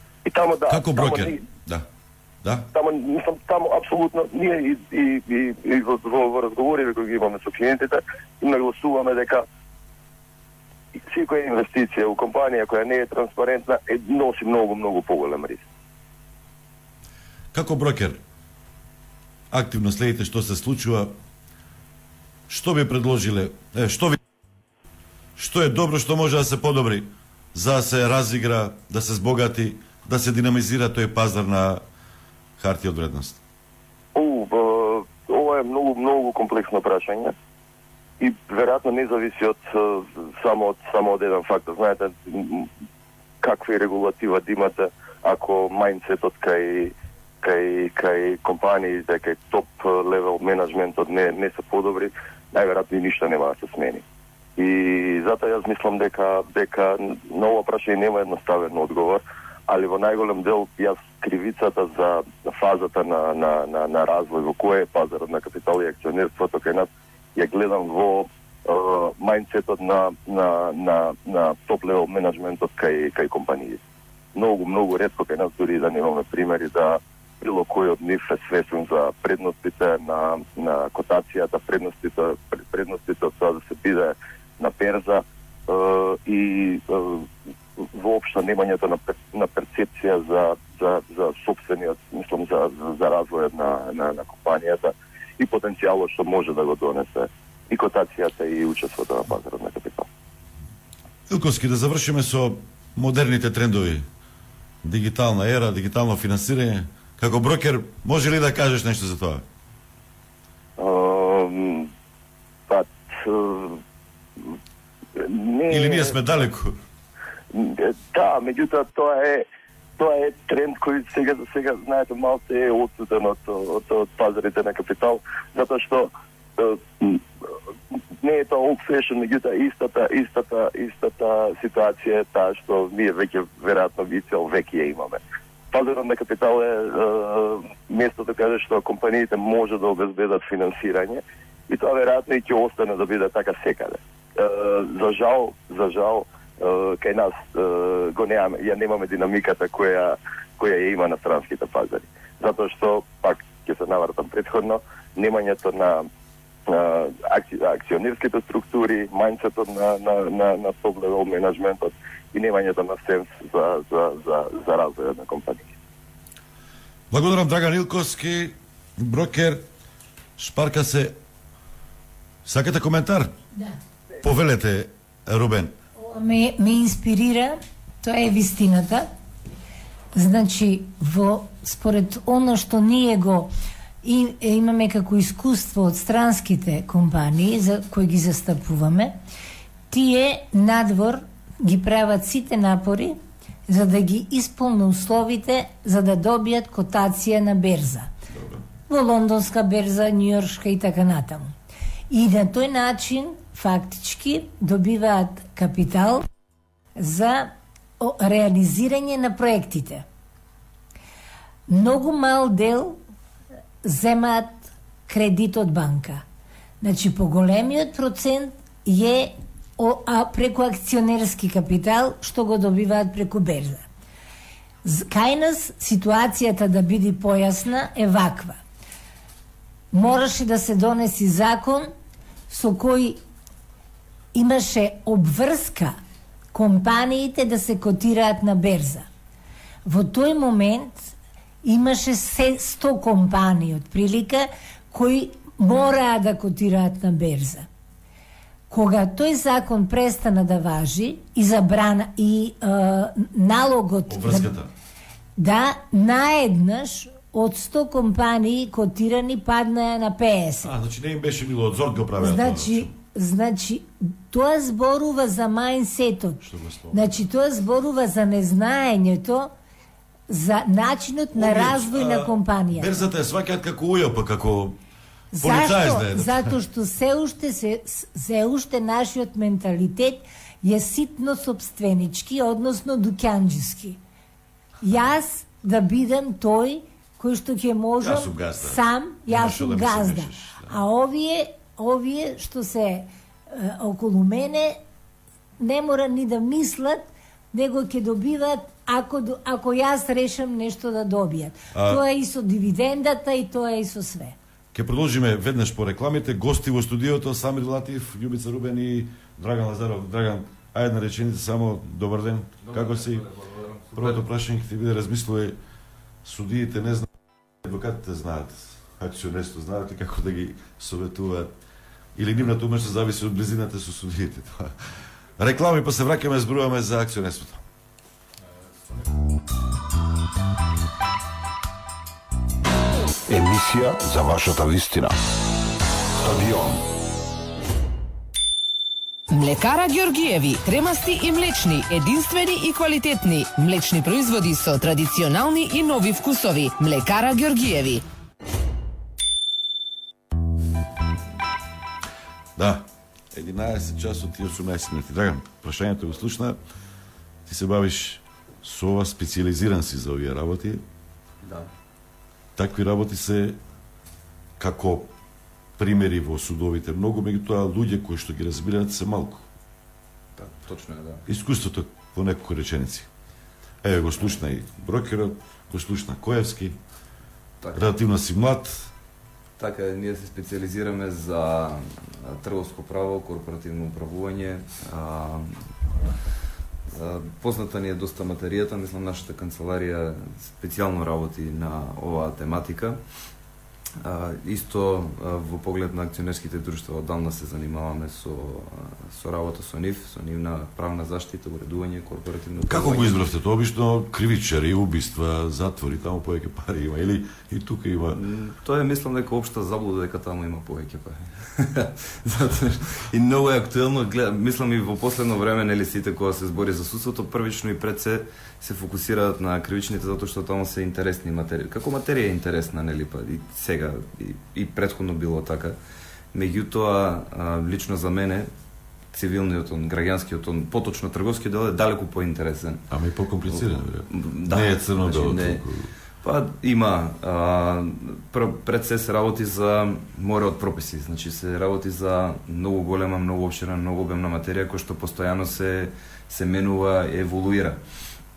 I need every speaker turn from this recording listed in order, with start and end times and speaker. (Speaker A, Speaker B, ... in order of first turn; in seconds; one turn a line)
Speaker A: 0.2-1.4
Speaker B: 0.7-1.8
Speaker A: 2.7-9.4
Speaker A: 11.1-15.6
Speaker B: 17.5-18.2
Speaker B: 19.5-21.1
Speaker B: 22.5-24.2
Speaker B: 25.4-31.8
Speaker B: 32.6-33.4
Speaker A: 34.1-37.3
Speaker A: 38.2-42.7
Speaker A: 43.4-54.0
Speaker A: 54.6-73.8
Speaker A: 74.3-87.3
Speaker A: 87.9-100.0
Speaker B: 101.3-104.0
Speaker B: 104.8-109.4
Speaker A: 110.8-111.9
Speaker A: 112.7-113.8
Speaker A: 115.2-116.2
Speaker B: 115.7-116.8
Speaker A: 117.5-119.5
Speaker A: 120.0-127.2
Speaker A: 128.2-135.2
Speaker A: 135.7-156.1
Speaker A: 156.7-165.7
Speaker B: 167.1-169.6
Speaker B: 170.4-171.1
Speaker B: 172.4-173.3
Speaker B: 174.2-175.7
Speaker C: 176.0-179.1
Speaker C: 180.1-189.2
Speaker C: 189.9-198.1
Speaker B: 198.3-198.6
Speaker C: 198.9-201.5
Speaker C: 202.1-206.2
Speaker C: 207.0-210.1
Speaker C: 211.7-213.0
Speaker C: 213.8-216.2
Speaker C: 216.8-223.8
Speaker C: 224.8-228.6
Speaker C: 229.9-231.9
Speaker C: 232.5-233.2
Speaker C: 234.3-236.0
Speaker C: 236.5-239.1
Speaker C: 239.8-241.1
Speaker C: 241.6-247.7
Speaker C: 248.7-254.5
Speaker B: 254.1-254.7
Speaker C: 255.4-260.7
Speaker B: 260.6-262.9
Speaker C: 262.2-269.5
Speaker B: 266.4-267.2
Speaker C: 270.3-273.1
Speaker B: 271.3-274.8
Speaker C: 275.3-284.0
Speaker B: 275.4-276.6
Speaker C: 284.8-294.8
Speaker B: 288.0-290.8
Speaker C: 295.6-304.4
Speaker B: 301.7-302.0
Speaker B: 304.7-313.3
Speaker B: 313.9-315.6
Speaker B: 316.2-317.1
Speaker B: 317.6-321.5
Speaker B: 322.1-324.7
Speaker B: 325.4-327.6
Speaker D: 333.3-335.1
Speaker D: 336.2-336.8
Speaker E: 339.3-348.0
Speaker B: 352.6-356.6
Speaker B: 357.4-360.8
Speaker F: 361.4-361.7
Speaker B: 362.6-363.6
Speaker B: 364.6-365.1
Speaker B: 365.8-369.4
Speaker F: 370.4-371.2
Speaker B: 371.2-373.1
Speaker B: 373.8-376.8
Speaker F: 377.6-377.9
Speaker B: 377.7-378.9
Speaker F: 379.6-385.6
Speaker F: 386.9-393.0
Speaker F: 394.0-403.2
Speaker B: 402.6-408.2
Speaker F: 408.1-425.8
Speaker F: 426.3-428.5
Speaker F: 429.1-432.8
Speaker B: 432.9-435.9
Speaker F: 433.5-435.6
Speaker F: 436.2-447.8